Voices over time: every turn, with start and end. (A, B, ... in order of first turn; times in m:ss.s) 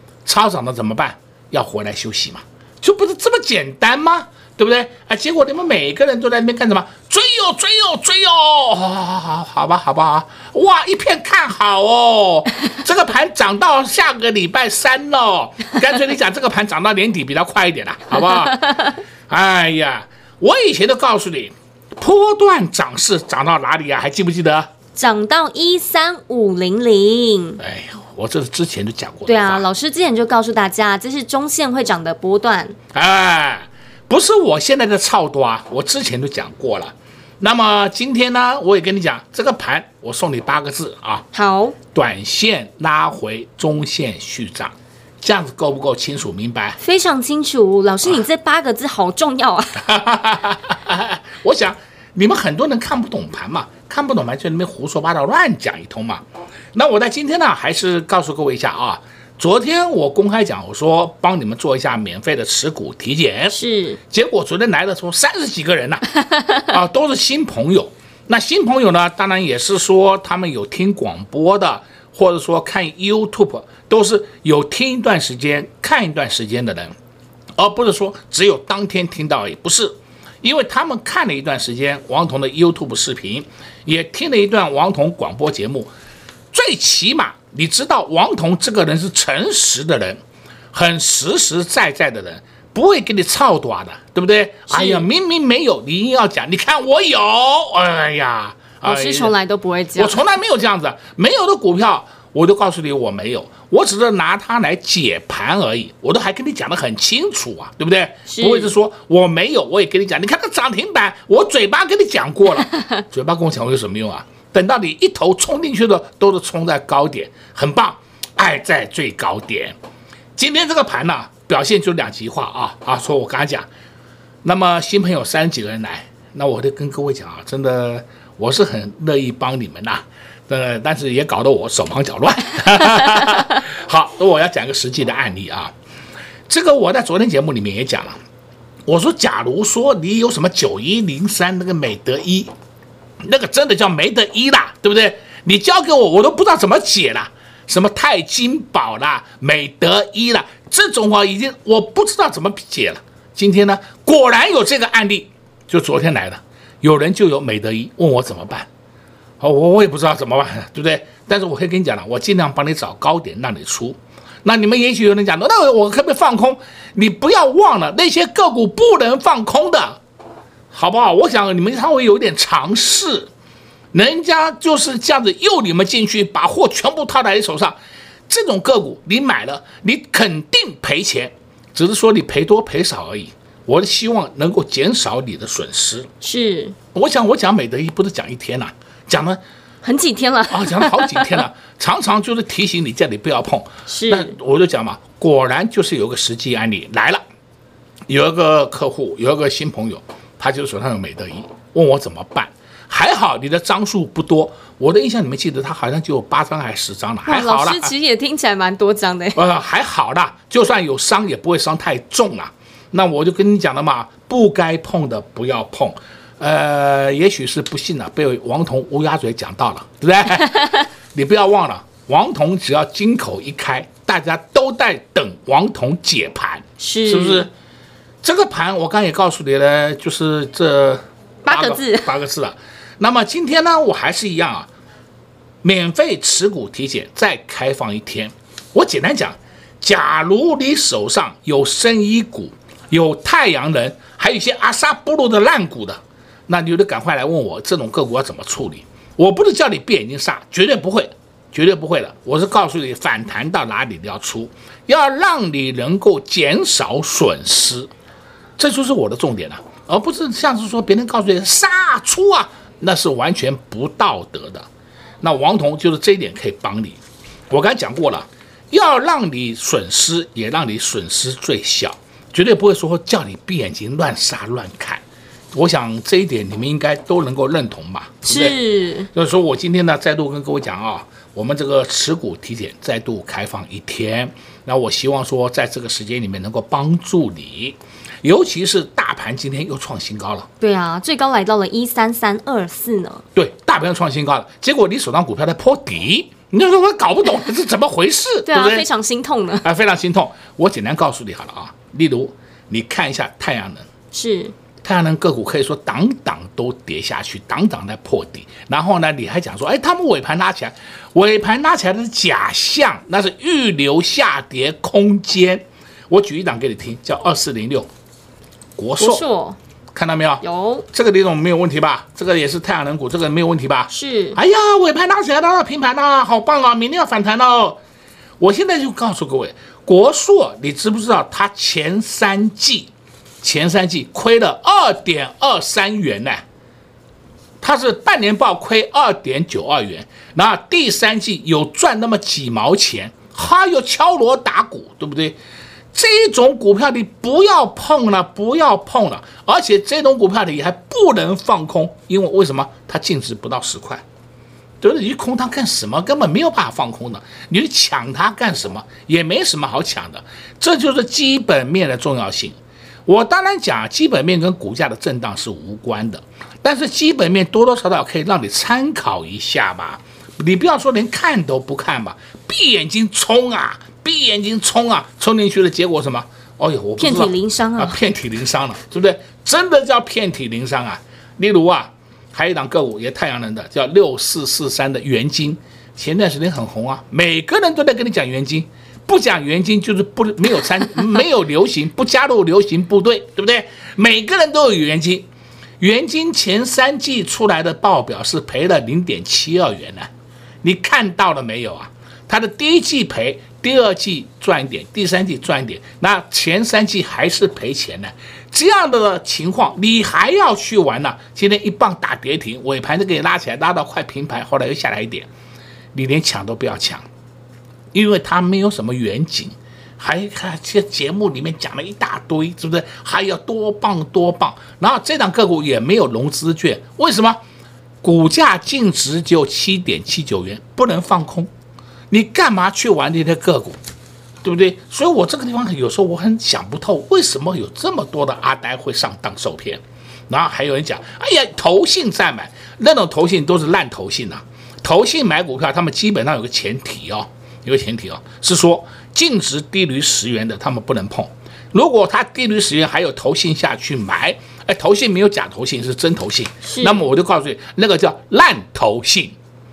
0:00.2-0:18.6 A
0:19.3-0:24.7 A
0:25.0-0:27.6 B
0:27.6-0:29.6 A
0:29.3-0:32.8 B
0:32.9-0:41.2 A
0:41.3-0:41.8 B
0:41.9-0:46.8 A
0:46.8-0:49.8 B
0:49.8-0:56.2 A
0:56.7-1:03.6 A
1:03.5-1:04.0 B
1:04.1-1:06.1 A
1:06.7-1:16.9 A
1:17.6-1:25.9 A
1:26.5-1:30.2 A
1:30.7-1:39.4 A
1:34.7-1:35.0 B
1:38.8-1:40.2 B
1:40.0-1:59.8 A
1:48.3-1:48.7 B
2:00.4-2:03.7 A
2:04.4-2:15.7 A
2:16.5-2:18.2 A
2:18.9-2:22.5 A
2:23.2-2:38.7 A
2:39.4-2:50.0 A
2:50.7-2:53.3 A
2:53.9-2:57.8 A
2:58.3-3:06.1 A
3:06.2-3:06.8 B
3:06.9-3:09.4 A
3:09.8-3:11.4 B
3:10.5-3:17.2 A
3:13.9-3:14.3 B
3:18.1-3:27.9 A
3:27.3-3:29.4 B
3:29.4-3:47.5 A
3:46.8-3:47.5 B
3:48.2-3:54.7 A
3:51.5-3:52.1 B
3:55.6-4:17.9 A
4:18.6-4:24.7 A
4:25.2-4:27.0 A
4:27.5-4:35.0 A
4:35.5-4:38.6 A
4:38.2-4:39.1 B
4:39.1-4:50.5 A
4:50.6-4:53.2 B
4:53.4-4:58.9 A
4:58.5-4:59.6 B
4:59.6-5:03.9 A
5:04.1-5:04.5 B
5:04.8-5:17.9 A
5:18.8-5:19.2 A
5:19.0-5:19.6 B
5:19.9-5:27.8 A
5:20.4-5:20.9 B
5:23.9-5:24.4 B
5:28.4-5:32.9 A
5:33.4-5:36.4 A
5:37.6-5:45.4 A
5:45.9-5:54.0 A
5:54.8-6:35.3 A
6:17.0-6:18.0 B
6:35.8-6:40.1 A
6:40.6-6:55.3 A
6:55.9-6:57.1 A
6:57.9-7:07.4 A
7:08.0-7:11.5 A
7:12.1-7:13.8 A
7:14.4-7:39.4 A
7:36.6-7:37.1 B